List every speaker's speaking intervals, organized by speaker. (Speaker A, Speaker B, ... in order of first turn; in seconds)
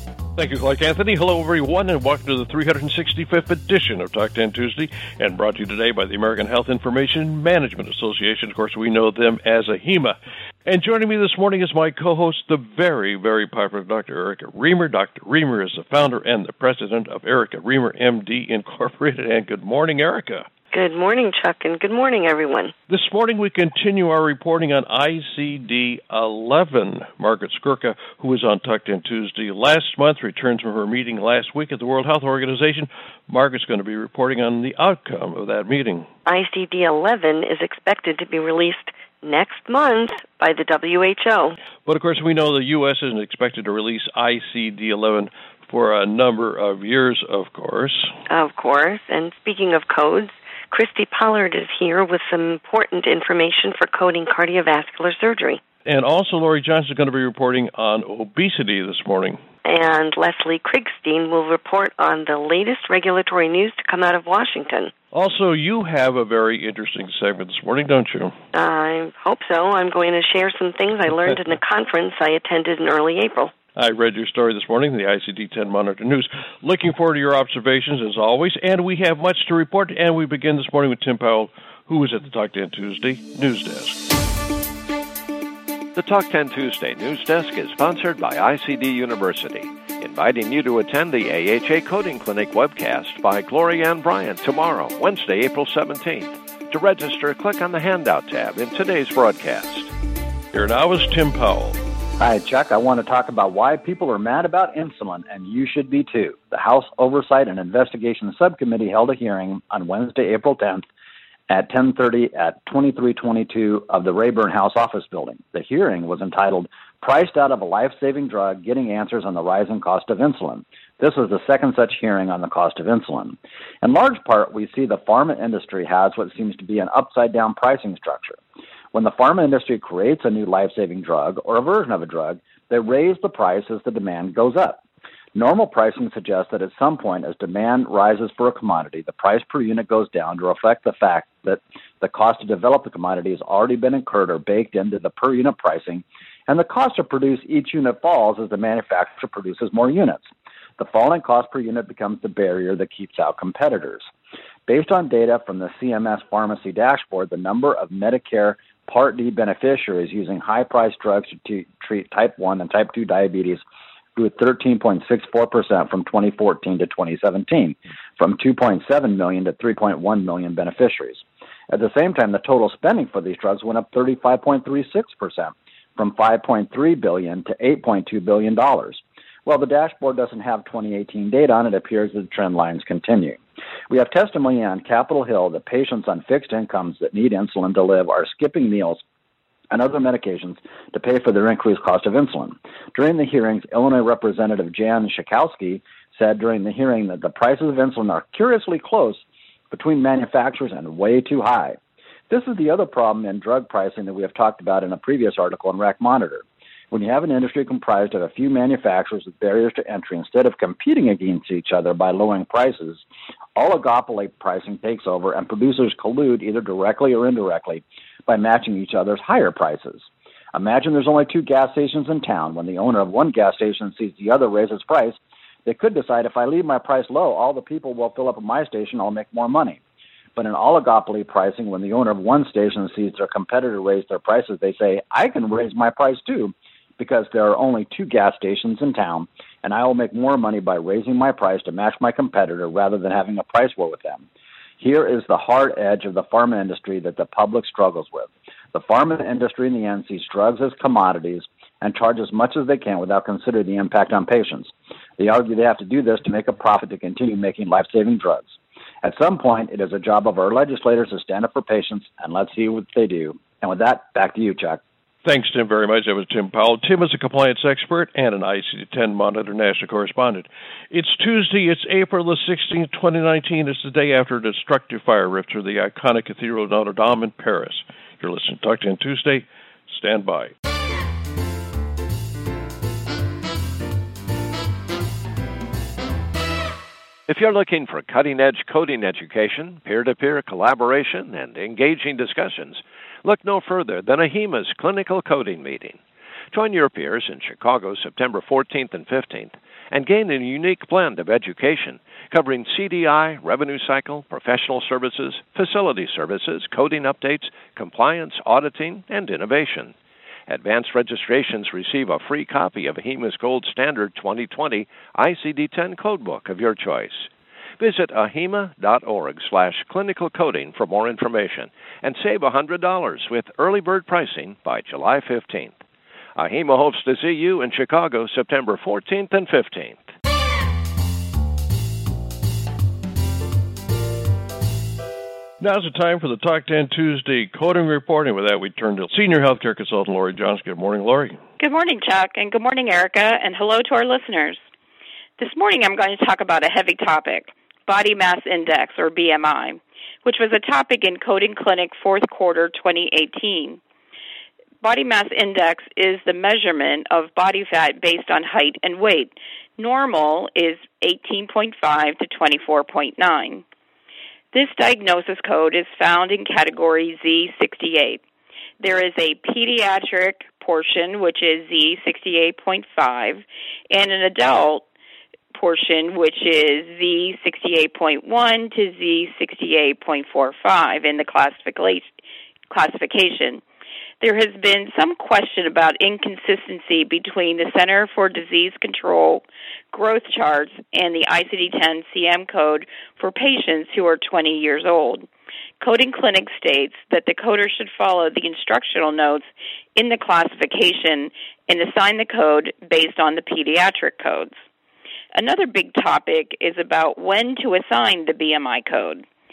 Speaker A: 0.3-20.5, 22.9-36.1, 41.8-48.1, 55.8-59.4, 65.1-68.3, 73.8-84.0, 100.5-101.8, 265.2-280.5, 335.6-341.4
Speaker B: 20.7-22.7, 36.2-41.6, 48.3-55.6, 59.6-64.9, 68.5-73.5
Speaker C: 85.9-99.9, 287.3-309.9, 310.5-325.8, 326.4-330.0
Speaker D: 102.2-110.8, 111.5-128.4, 128.9-134.8, 135.3-150.3, 150.8-154.1, 154.7-163.6, 164.1-183.4, 183.9-189.0, 189.7-201.8, 202.3-213.0, 213.6-229.8, 230.3-244.2, 244.8-258.5, 259.0-264.8
Speaker E: 341.6-344.6, 345.4-353.8, 354.8-363.6, 364.5-368.2, 368.8-374.8, 375.5-382.1, 382.7-383.6, 384.2-395.3, 395.8-404.6, 405.3-409.2